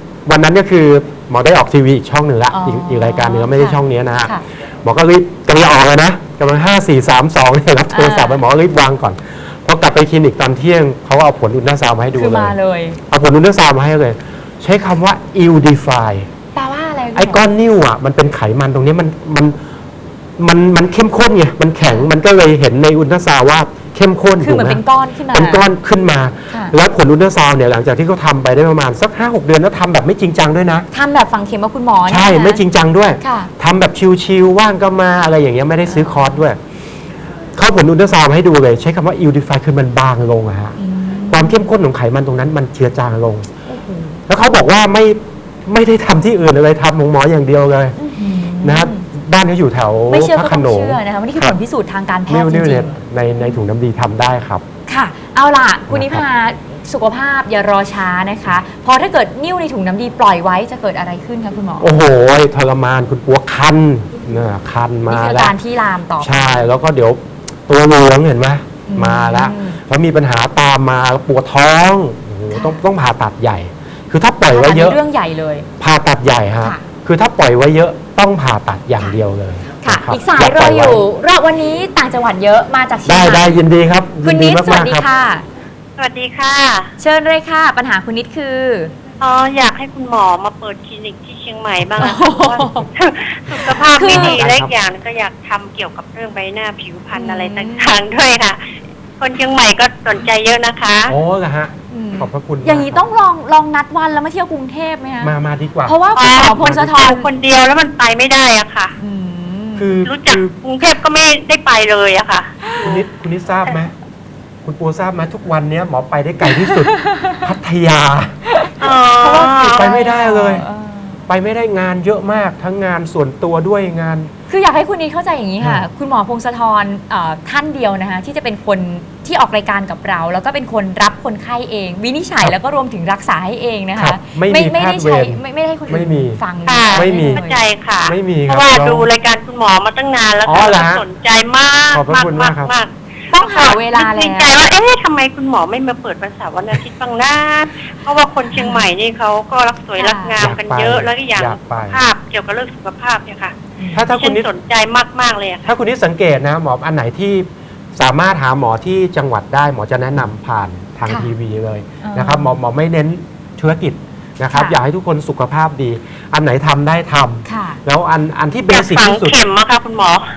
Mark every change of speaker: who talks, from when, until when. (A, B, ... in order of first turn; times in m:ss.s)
0:00.3-0:12.6 A
0:02.5-0:04.4 B
0:07.9-0:08.4 B
0:12.2-0:13.0 B
0:13.1-0:16.3 A
0:16.6-0:17.4 B
0:17.1-0:19.6 A
0:20.4-0:30.9 A
0:21.8-0:22.1 B
0:24.4-0:25.7 B
0:26.5-0:26.8 B
0:30.9-0:32.6 B
0:32.1-0:36.6 A
0:33.2-0:33.5 B
0:35.9-0:36.4 B
0:37.6-0:40.8 A
0:40.8-0:41.6 B
0:41.3-0:43.5 A
0:43.7-0:44.2 B
0:44.3-0:48.0 A
0:48.0-0:49.0 B
0:48.6-0:51.6 A
0:50.1-0:53.6 B
0:52.3-0:54.6 A
0:54.9-1:01.9 B
0:55.9-0:56.2 A
1:01.8-1:05.6 A
1:05.1-1:06.7 B
1:06.2-1:15.0 A
1:08.9-1:09.8 B
1:12.5-1:12.8 B
1:14.5-1:15.7 B
1:15.8-1:21.0 A
1:19.8-1:23.6 B
1:23.0-1:25.0 A
1:24.2-1:25.4 B
1:26.0-1:26.9 C
1:27.0-1:28.9 B
1:29.2-1:38.6 C
1:32.0-1:32.9 B
1:33.5-1:34.7 A
1:33.7-1:34.4 B
1:37.1-1:38.0 B
1:39.2-1:41.1 C
1:41.1-1:43.0 A
1:41.9-1:45.3 B
1:45.2-1:47.1 A
1:45.9-1:47.3 B
1:46.1-1:48.9 C
1:49.0-1:49.9 B
1:49.8-1:50.6 A
1:50.0-1:53.0 C
1:52.6-1:53.0 B
1:52.8-1:53.9 A
1:54.6-1:58.4 A
1:56.7-1:57.4 B
1:58.8-2:00.0 C
1:59.2-2:00.7 A
1:59.2-2:01.2 B
2:01.3-2:04.3 A
2:04.5-2:17.6 B
2:05.6-2:05.9 A
2:14.0-2:16.4 A
2:16.6-2:35.7 C
2:16.9-2:17.4 A
2:18.1-2:19.1 A
2:20.4-2:21.0 A
2:21.9-2:22.8 A
2:23.3-2:24.6 B
2:28.5-2:28.8 B
2:30.0-2:30.4 B
2:30.4-2:32.1 A
2:33.8-2:34.1 B
2:33.9-2:34.5 A
2:35.7-2:49.4 A
2:42.0-2:42.6 B
2:44.5-2:44.8 B
2:47.5-2:47.8 B
2:48.7-2:50.3 C